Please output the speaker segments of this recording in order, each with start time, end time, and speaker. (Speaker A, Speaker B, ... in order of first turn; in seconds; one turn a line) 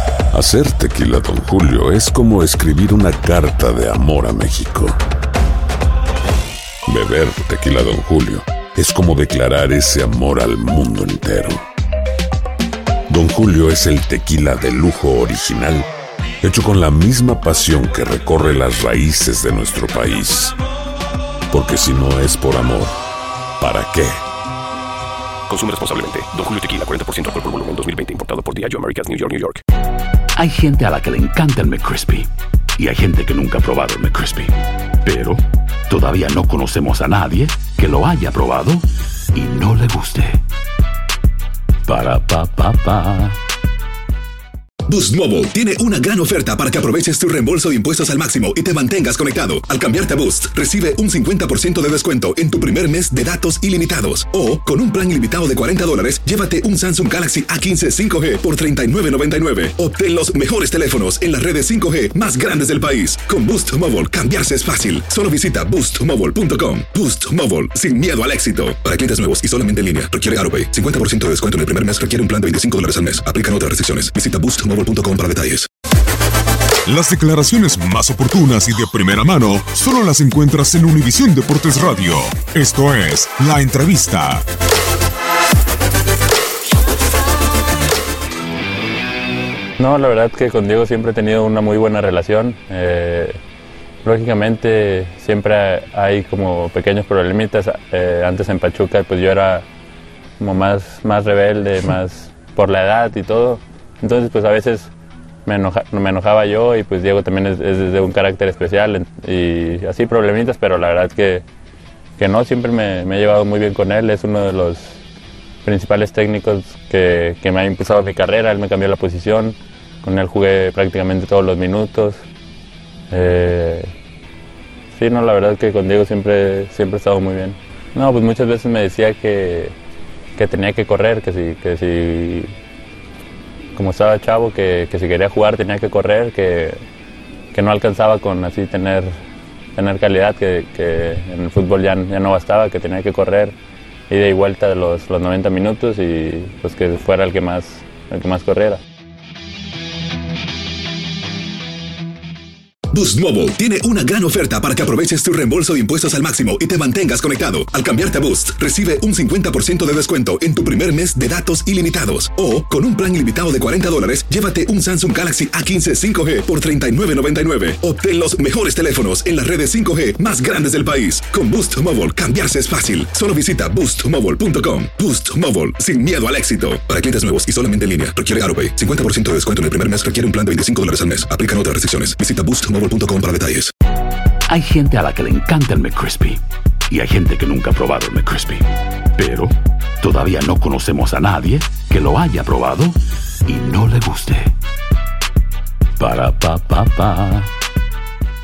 Speaker A: 0.3-5.0
Speaker A: 6.9-11.6
Speaker A: 13.1-15.9
Speaker A: 16.4-20.6
Speaker A: 21.5-23.0
Speaker A: 23.6-24.2
Speaker B: 25.5-29.6
Speaker C: 30.4-40.4
Speaker C: 41.9-43.4
Speaker D: 44.9-75.7
Speaker E: 76.9-84.4
Speaker B: 77.1-84.3
Speaker F: 89.8-93.4
Speaker F: 94.0-99.7
Speaker F: 100.4-104.9
Speaker F: 105.5-111.4
Speaker F: 112.2-115.0
Speaker F: 115.7-122.2
Speaker F: 123.1-123.9
Speaker F: 124.9-129.8
Speaker F: 130.4-132.5
Speaker F: 133.8-136.8
Speaker F: 137.5-139.1
Speaker F: 139.8-143.5
Speaker F: 144.1-148.8
Speaker D: 152.9-183.7
Speaker C: 184.5-194.5
Speaker C: 196.0-197.5